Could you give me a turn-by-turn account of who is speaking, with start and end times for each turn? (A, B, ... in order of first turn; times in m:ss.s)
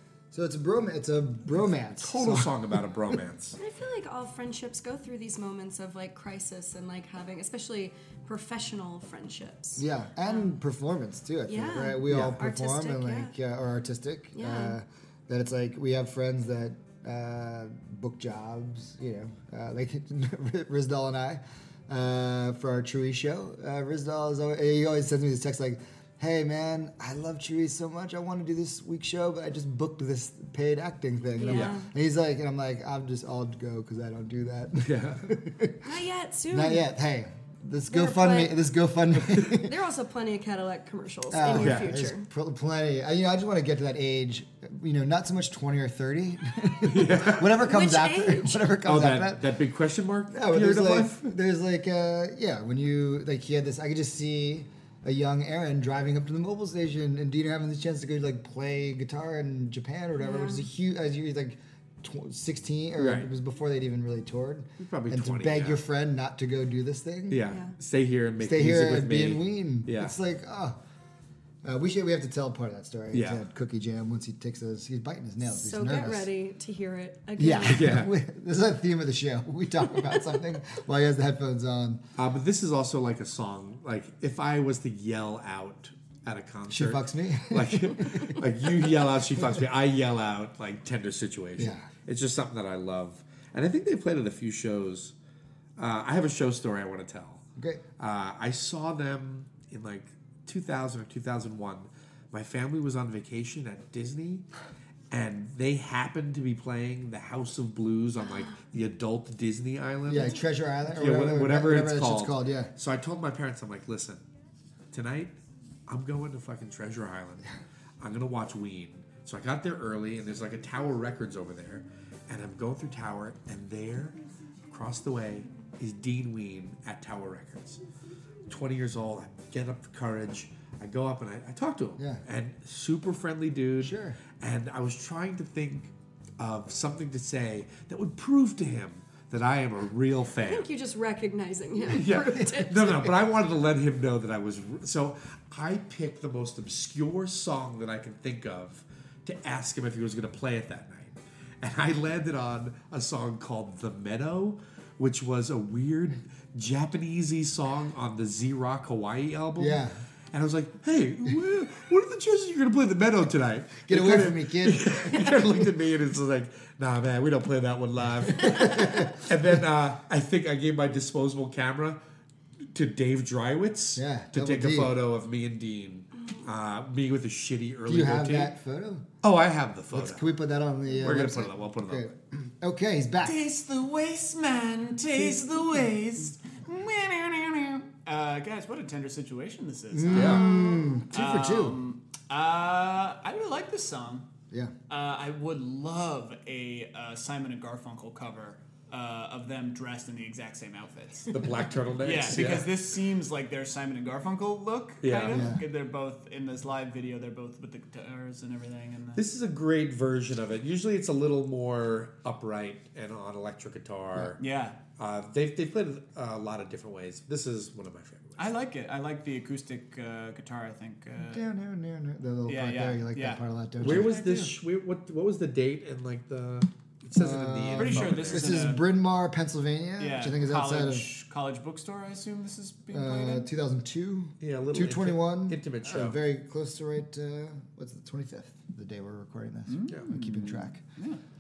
0:00.3-0:02.6 A
0:02.0-0:03.6 B
0:03.6-0:10.5 C
0:09.8-0:36.0 A
0:11.5-0:13.3 C
0:12.1-0:12.4 B
0:14.4-0:14.8 C
0:31.4-0:31.9 C
0:31.4-0:31.8 B
0:34.8-0:35.2 B
0:35.8-0:36.8 C
0:36.5-0:39.8 A
0:37.9-0:38.6 C
0:39.4-0:42.3 C
0:41.3-0:49.4 A
0:41.4-0:41.9 B
0:46.8-0:47.6 B
0:47.6-0:48.6 C
0:48.8-0:51.2 B
0:50.3-1:07.4 A
1:00.2-1:00.6 C
1:03.0-1:03.3 B
1:04.8-1:05.8 B
1:07.3-1:10.2 B
1:07.4-1:07.7 C
1:08.4-1:10.8 A
1:11.6-1:16.3 A
1:13.1-1:13.4 B
1:15.5-1:17.9 C
1:17.4-1:22.0 A
1:17.6-1:18.1 B
1:22.2-1:35.1 B
1:26.7-1:28.4 A
1:31.6-1:31.9 A
1:35.8-1:37.4 B
1:37.6-1:37.8 A
1:38.0-1:44.5 B
1:45.1-1:54.2 B
1:50.1-1:52.7 A
1:54.9-1:55.3 B
1:55.9-2:04.2 B
2:04.7-2:07.8 B
2:08.5-2:20.7 B
2:12.0-2:12.2 A
2:13.8-2:14.2 A
2:20.4-2:23.0 C
2:21.9-2:52.0 B
2:22.0-2:22.3 A
2:39.6-2:40.0 A
2:43.9-2:45.7 A
2:48.4-2:49.3 A
2:52.7-2:58.6 B
2:54.0-2:54.9 A
2:57.9-2:59.1 A
2:59.2-3:00.3 B
2:59.9-3:03.4 A
3:00.9-3:02.1 B
3:03.2-3:14.3 D
3:09.9-3:11.8 A
3:10.1-3:10.5 B
3:10.3-3:11.0 C
3:14.9-3:29.2 D
3:21.3-3:22.7 B
3:25.0-3:25.5 B
3:25.3-3:25.6 A
3:29.2-3:34.4 B
3:34.4-3:34.8 D
3:35.0-3:38.5 B
3:38.4-3:41.4 D
3:41.3-3:44.1 A
3:42.5-3:44.5 D
3:43.8-3:48.7 B
3:47.2-3:51.1 A
3:47.8-3:48.9 D
3:50.0-3:53.5 D
3:52.9-4:00.8 A
3:54.4-3:56.2 B
3:59.7-4:01.2 D